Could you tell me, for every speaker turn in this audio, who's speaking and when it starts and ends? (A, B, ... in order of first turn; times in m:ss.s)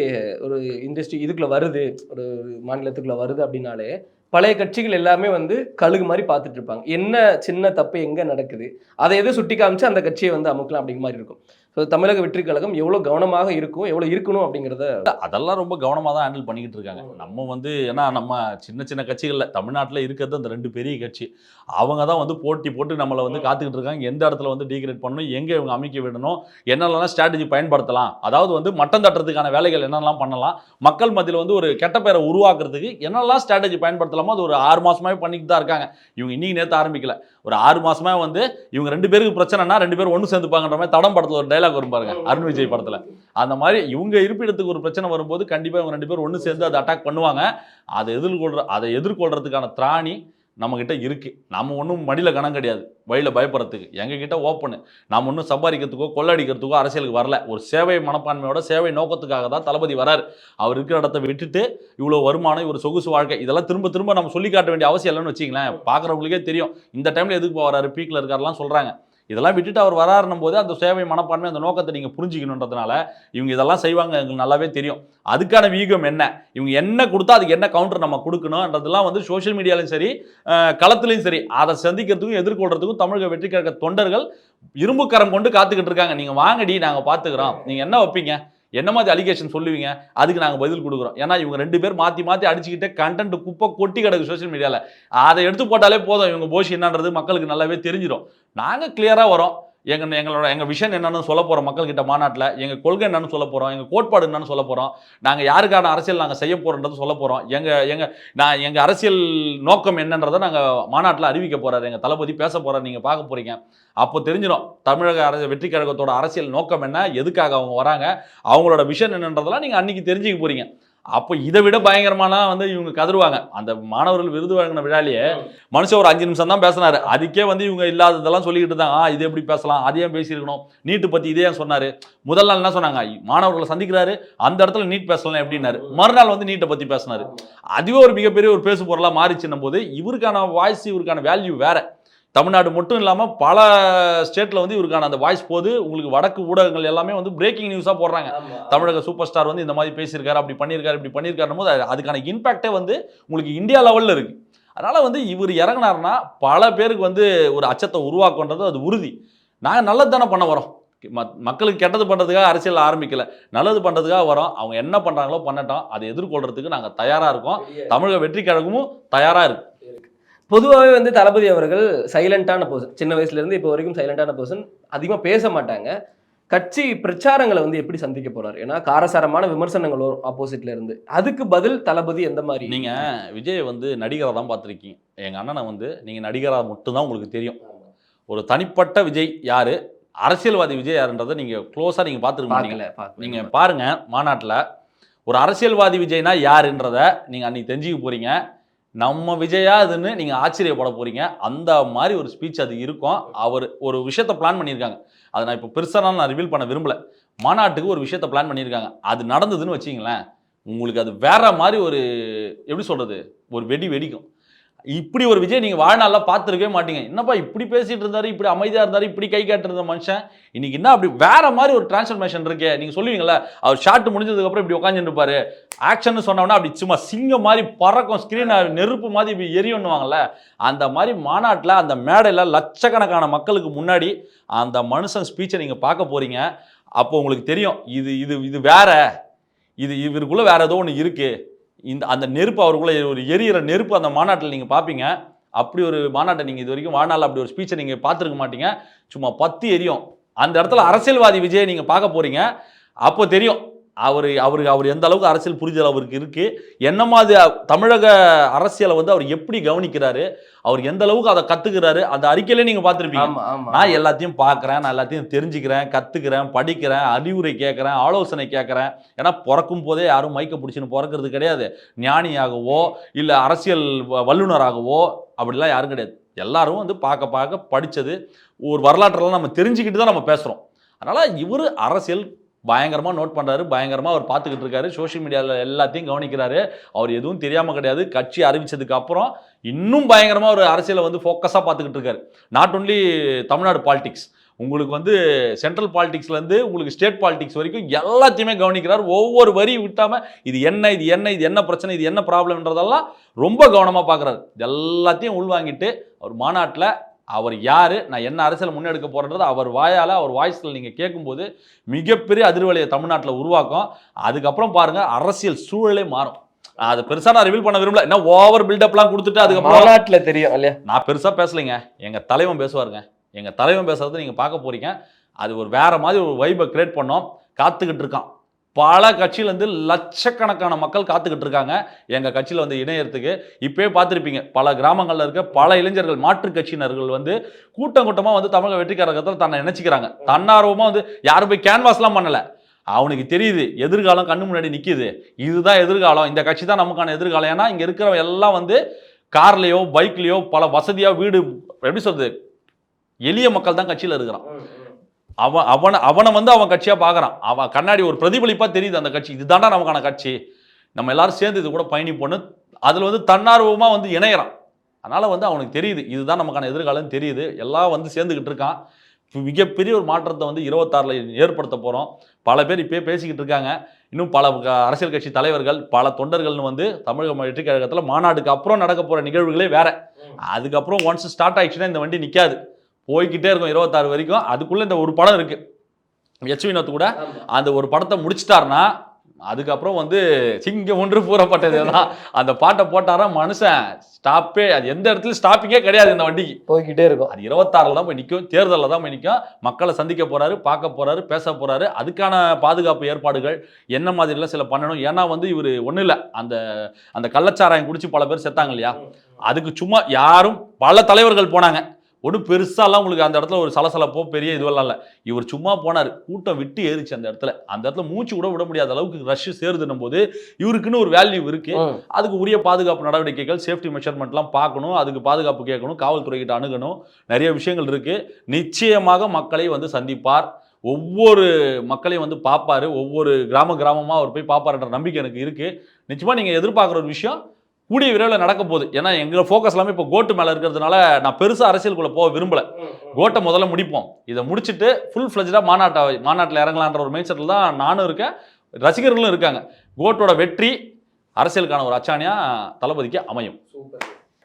0:00.4-0:14.9 A
0:15.1-1:24.2 B
1:24.8-2:21.8 B
2:15.6-2:15.9 A
2:17.2-2:17.4 A
2:22.3-2:39.1 B
2:28.3-2:28.9 A
2:39.6-2:49.7 B
2:47.6-2:48.0 A
2:49.8-2:55.9 A
2:56.5-3:03.0 A
3:02.7-3:07.6 B
3:08.3-3:14.6 B
3:12.5-3:13.5 A
3:15.3-3:18.4 B
3:19.0-3:30.2 B
3:30.7-3:34.2 B
3:34.9-3:56.5 B
3:57.0-3:59.0 B
3:59.8-4:01.3 B
4:01.9-4:12.4 B
4:13.0-4:38.2 B
4:23.1-4:24.0 A
4:38.7-5:19.9 B
5:19.4-5:20.8 A
5:20.9-5:42.4 B
5:42.9-5:48.8 B
5:49.3-5:52.3 B
5:53.3-5:54.4 B
5:55.4-6:00.3 B
6:01.0-6:04.5 B
6:05.0-6:08.7 B
6:09.3-6:19.9 B
6:20.5-6:25.6 B
6:26.4-6:28.9 B
6:27.2-6:27.5 A
6:29.5-6:36.6 B
6:36.7-6:37.3 A
6:37.3-6:46.6 B
6:47.1-7:17.4 B
7:01.7-7:02.0 A
7:17.9-7:28.3 B
7:28.8-7:30.7 B
7:31.4-7:33.6 B
7:33.7-7:34.2 A